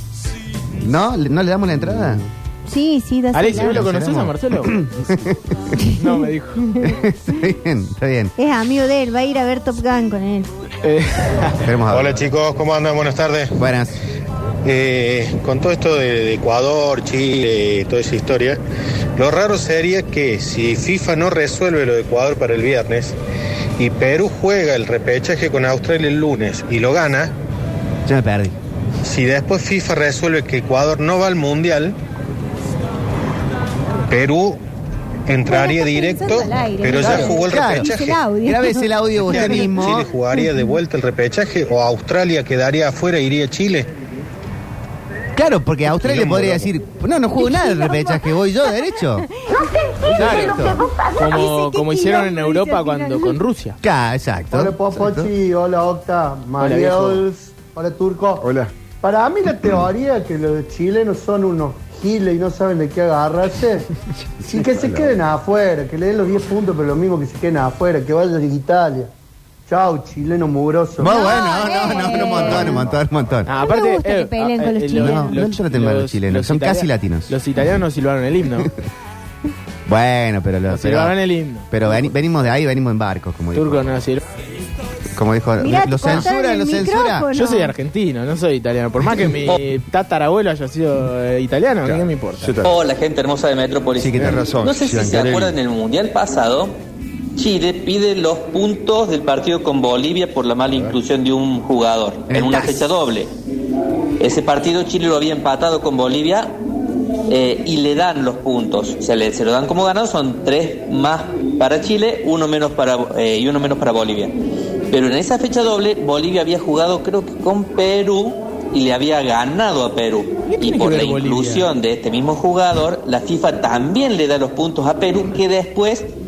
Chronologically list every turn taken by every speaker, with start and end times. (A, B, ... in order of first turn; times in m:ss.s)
0:00.8-0:02.2 A
0:01.8-0:02.2 B
0:02.6-0:03.8 C
0:03.3-0:04.8 D
0:03.5-0:05.8 A
0:05.9-0:06.8 D
0:06.8-0:08.3 A
0:08.4-0:10.5 C
0:10.8-0:11.6 D
0:11.6-0:12.3 A
0:11.9-0:13.6 E
0:13.6-0:14.0 A
0:14.6-0:18.6 E
0:19.2-0:23.2 E
0:23.8-0:27.3 E
0:28.0-0:28.5 A
0:29.0-0:32.0 E
0:34.1-0:34.6 E
0:35.3-0:38.2 E
0:35.4-0:40.2 C
0:36.9-0:40.1 A
0:39.2-0:43.9 E
0:45.3-0:49.3 A
0:46.0-0:46.6 E
0:47.4-0:48.3 C
0:49.5-0:53.4 C
0:50.0-0:50.8 A
0:50.2-0:53.8 D
0:53.8-0:55.3 A
0:54.5-0:58.5 F
0:56.6-0:57.2 D
0:58.4-0:58.7 B
0:59.0-1:03.9 F
1:04.4-1:05.2 B
1:04.4-1:09.1 F
1:09.7-1:11.2 F
1:11.0-1:13.5 A
1:11.0-1:12.8 C
1:11.7-1:13.4 B
1:13.4-1:18.7 D
1:13.6-1:15.4 C
1:14.9-1:17.3 A
1:19.8-1:21.2 A
1:20.7-1:22.0 D
1:21.7-1:23.8 A
1:23.5-1:24.2 D
1:25.1-1:27.3 A
1:25.6-1:27.7 C
1:27.3-1:32.6 D
1:31.8-1:32.8 B
1:32.6-1:36.7 G
1:34.0-1:34.4 A
1:34.1-1:35.6 B
1:37.4-1:43.3 G
1:42.3-1:42.9 A
1:44.2-1:46.6 G
1:47.3-1:54.3 G
1:54.9-2:06.1 G
2:00.5-2:01.7 D